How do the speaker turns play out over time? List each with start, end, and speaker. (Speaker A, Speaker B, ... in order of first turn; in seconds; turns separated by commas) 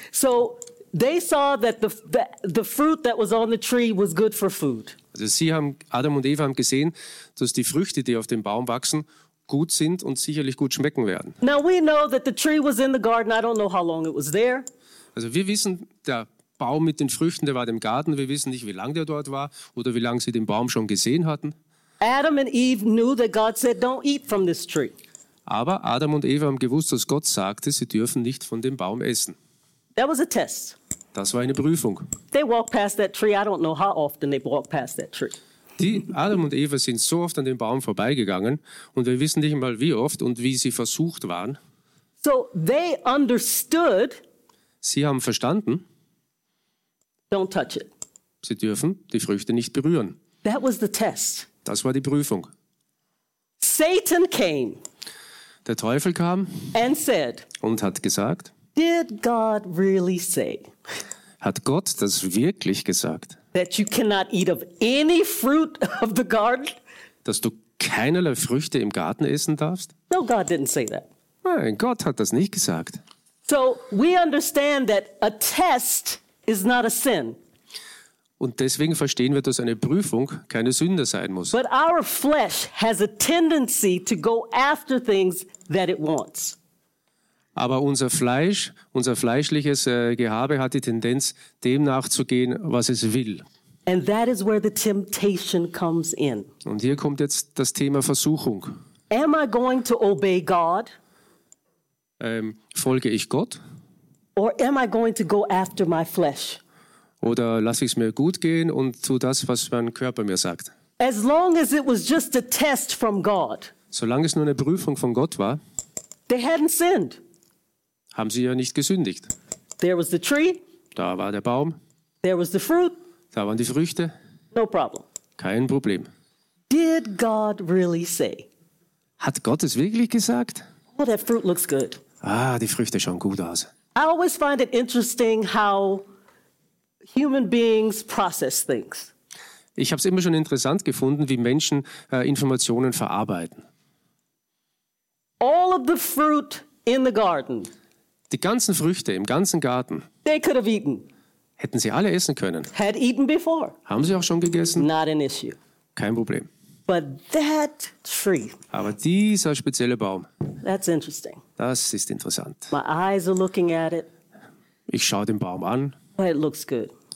Speaker A: 0.1-5.0, Speaker B: 5.1-11.4, Speaker A: 11.4-14.7, Speaker B: 15.2-21.5, Speaker A: 22.0-24.9, Speaker B: 25.5-29.4, Speaker A: 30.0-30.8, Speaker B: 31.1-32.0, Speaker A: 32.3-35.4, Speaker B: 35.8-41.6, Speaker A: 42.2-44.2, Speaker B: 44.8-45.8, Speaker A: 47.3-47.9, Speaker B: 48.4-50.2, Speaker A: 50.4-51.5, Speaker B: 51.6-52.5, Speaker A: 53.6-54.8, Speaker B: 55.7-56.7, Speaker A: 56.7-57.5, Speaker B: 57.6-58.5, Speaker A: 58.8-60.7, Speaker B: 61.4-63.4, Speaker A: 63.5-66.8, Speaker B: 67.2-69.9, Speaker A: 70.1-71.1, Speaker B: 71.4-73.0, Speaker A: 73.5-77.4, Speaker B: 78.4-81.5, Speaker A: 81.5-86.6, Speaker B: 87.6-93.4, Speaker A: 93.9-96.5, Speaker B: 96.6-98.8, Speaker A: 99.1-100.9, Speaker B: 102.2-103.6, Speaker A: 104.4-106.6, Speaker B: 107.2-110.7, Speaker A: 111.0-113.7, Speaker B: 113.9-115.6, Speaker A: 116.3-117.2, Speaker B: 118.1-119.3, Speaker A: 119.8-120.6, Speaker B: 121.0-121.8, Speaker A: 122.2-123.0, Speaker B: 123.3-124.1, Speaker A: 124.5-125.0, Speaker B: 125.4-126.1, Speaker A: 126.7-128.5, Speaker B: 129.2-130.7, Speaker A: 130.9-132.0, Speaker B: 132.2-133.7, Speaker A: 133.9-136.0, Speaker A: 137.1-139.1, Speaker B: 139.8-143.6, Speaker A: 145.4-147.7, Speaker B: 148.3-150.1, Speaker A: 150.2-151.1, Speaker B: 151.6-152.7, Speaker A: 152.7-153.7, Speaker B: 153.9-154.9, Speaker A: 154.8-155.6, Speaker B: 156.0-156.5, Speaker A: 156.9-158.6, Speaker B: 158.7-160.3, Speaker A: 160.6-161.4, Speaker B: 161.6-162.7, Speaker A: 162.7-164.1, Speaker B: 164.9-166.0, Speaker A: 166.2-166.9